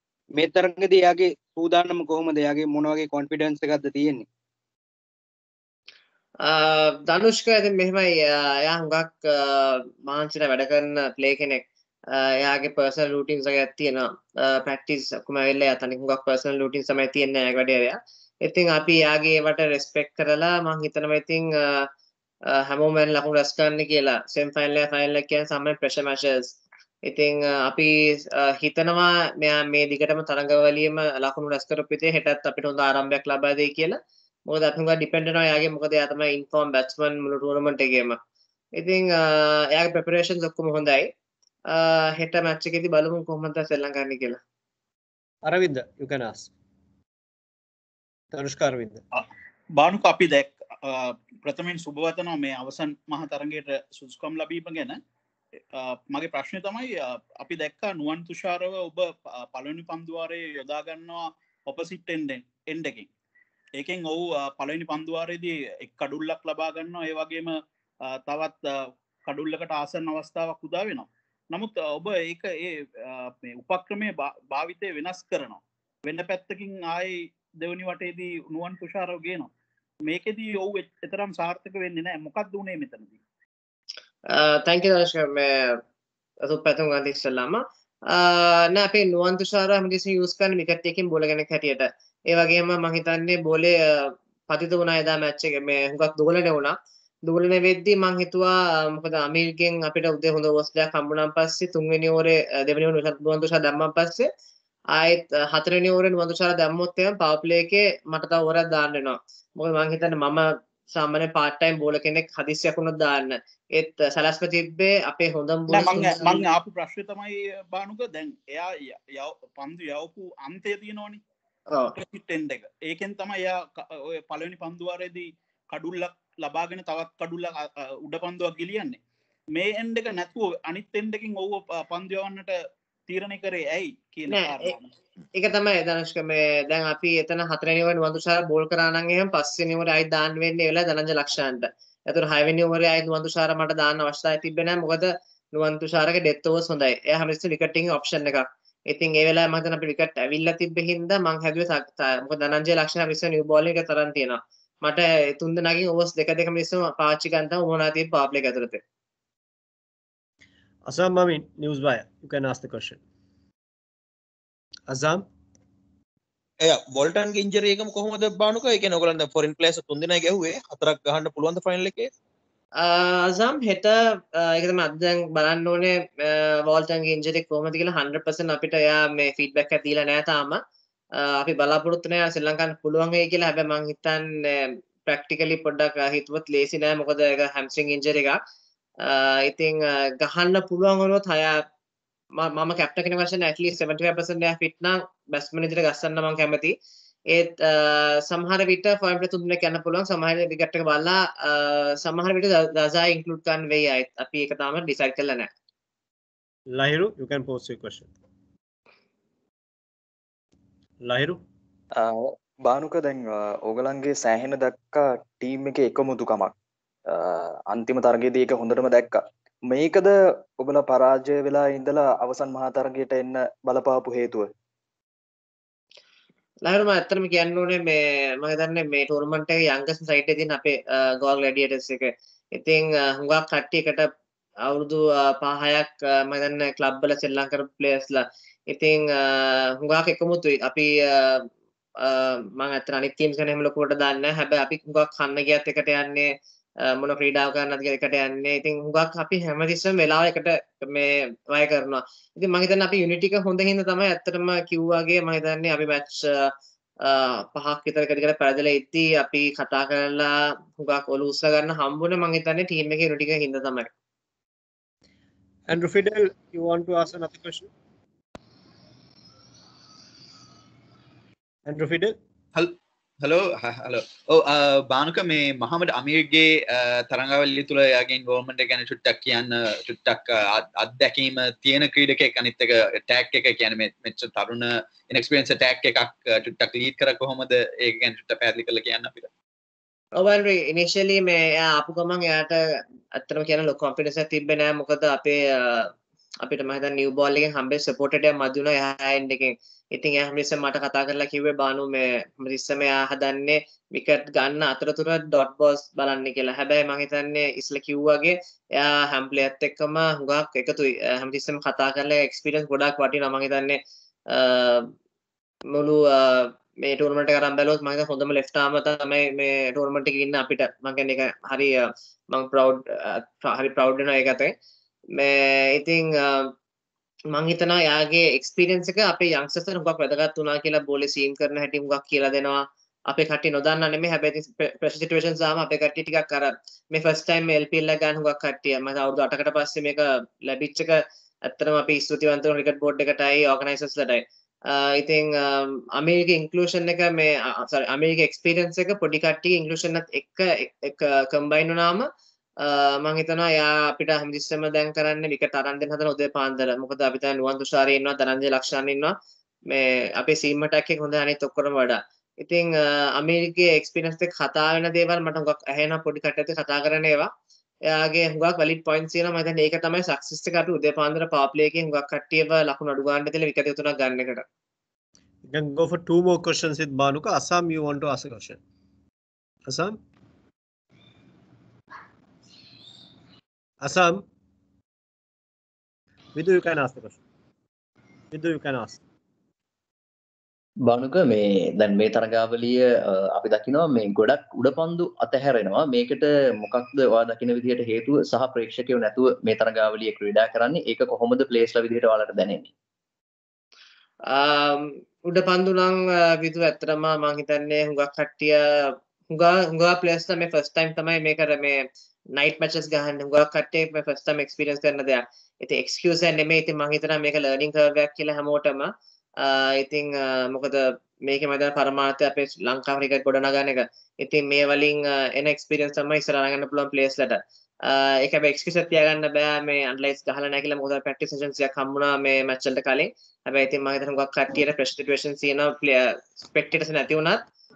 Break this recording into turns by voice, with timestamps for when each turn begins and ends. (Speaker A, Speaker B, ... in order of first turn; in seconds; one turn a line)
Speaker A: 0.4-4.2
Speaker B: 6.4-21.9
Speaker B: 22.5-38.2
Speaker B: 38.8-41.1
Speaker B: 41.7-44.4
Speaker C: 45.4-46.5
Speaker C: 48.3-49.0
Speaker D: 49.1-55.0
Speaker D: 55.7-63.1
Speaker D: 63.8-79.5
Speaker D: 80.1-83.2
Speaker B: 84.3-85.8
Speaker B: 86.4-104.3
Speaker B: 104.9-116.4
Speaker D: 115.7-121.2
Speaker B: 121.7-122.0
Speaker D: 122.0-129.0
Speaker D: 129.5-132.6
Speaker D: 133.1-134.9
Speaker B: 134.3-134.7
Speaker B: 135.3-158.8
Speaker C: 160.9-163.0
Speaker C: 164.9-165.3
Speaker E: 166.6-172.1
Speaker B: 172.8-180.6
Speaker B: 181.1-188.4
Speaker B: 189.0-191.6
Speaker B: 192.4-196.8
Speaker B: 197.3-205.5
Speaker C: 206.7-208.1
Speaker C: 211.0-211.4
Speaker F: 212.0-216.5
Speaker F: 217.1-224.5
Speaker B: 226.6-234.1
Speaker B: 234.6-263.9
Speaker C: 265.7-267.7
Speaker C: 271.7-272.2
Speaker G: 272.6-289.3
Speaker B: 290.2-314.9
Speaker B: 315.7-324.5
Speaker B: 325.1-326.5
Speaker B: 327.3-359.2
Speaker B: 359.7-367.3
Speaker B: 367.9-374.4
Speaker C: 375.5-378.6
Speaker C: 379.7-380.0
Speaker C: 383.8-384.2
Speaker C: 386.4-387.2
Speaker C: 388.3-389.0
Speaker H: 390.9-402.7
Speaker B: 404.2-437.4